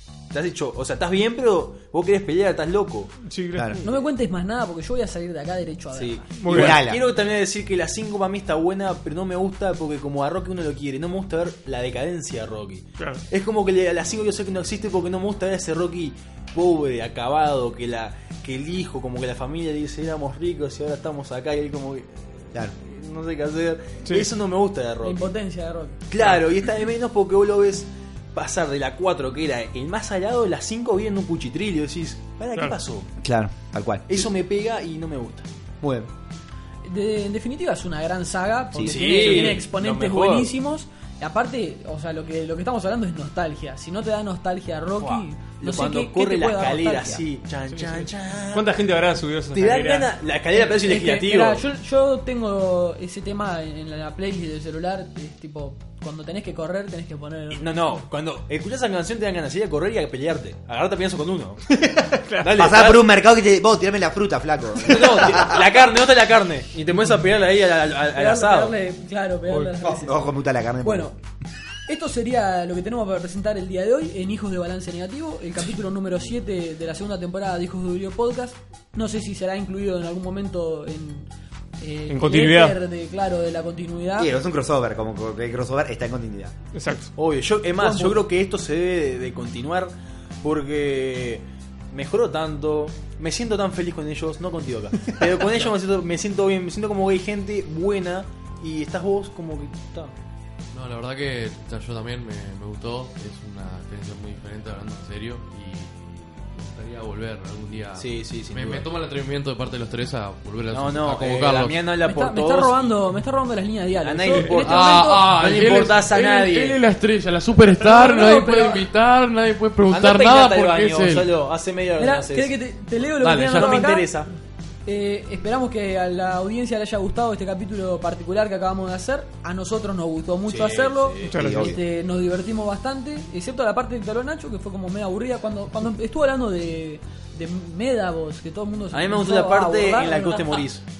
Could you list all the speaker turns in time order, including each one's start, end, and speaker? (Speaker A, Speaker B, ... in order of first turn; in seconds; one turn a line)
Speaker A: 0.3-3.2
Speaker B: 3.2-3.8
Speaker C: 3.8-6.3
Speaker A: 5.9-25.3
Speaker B: 6.4-6.8
Speaker D: 6.5-7.0
Speaker B: 13.0-13.2
Speaker B: 24.1-24.3
Speaker C: 25.0-26.0
Speaker A: 26.1-33.1
Speaker D: 33.2-34.3
Speaker A: 34.1-35.5
Speaker D: 35.8-36.1
Speaker C: 36.9-47.2
Speaker D: 38.7-39.0
Speaker A: 38.8-40.5
Speaker B: 39.0-40.1
Speaker A: 45.0-48.8
Speaker B: 47.7-50.1
Speaker A: 49.5-51.6
Speaker C: 50.5-57.8
Speaker A: 57.5-61.7
Speaker B: 61.9-62.6
Speaker A: 62.4-63.1
Speaker D: 62.5-65.7
Speaker A: 64.8-68.8
Speaker C: 68.2-70.3
Speaker D: 69.8-71.1
Speaker C: 70.8-71.1
Speaker C: 71.9-81.3
Speaker C: 81.8-84.3
Speaker B: 82.1-82.8
Speaker D: 84.2-86.6
Speaker B: 86.7-87.1
Speaker A: 87.2-100.1
Speaker C: 87.8-88.2
Speaker E: 100.7-111.8
Speaker A: 108.0-108.8
Speaker A: 110.7-112.9
Speaker C: 112.0-115.3
Speaker A: 114.0-116.8
Speaker B: 114.3-114.5
Speaker E: 114.6-121.3
Speaker C: 117.7-118.8
Speaker A: 119.9-122.5
Speaker C: 122.0-124.1
Speaker E: 123.2-123.9
Speaker A: 123.5-124.3
Speaker C: 124.9-140.6
Speaker A: 130.5-131.4
Speaker B: 131.3-131.7
Speaker D: 131.4-131.8
Speaker A: 138.9-140.8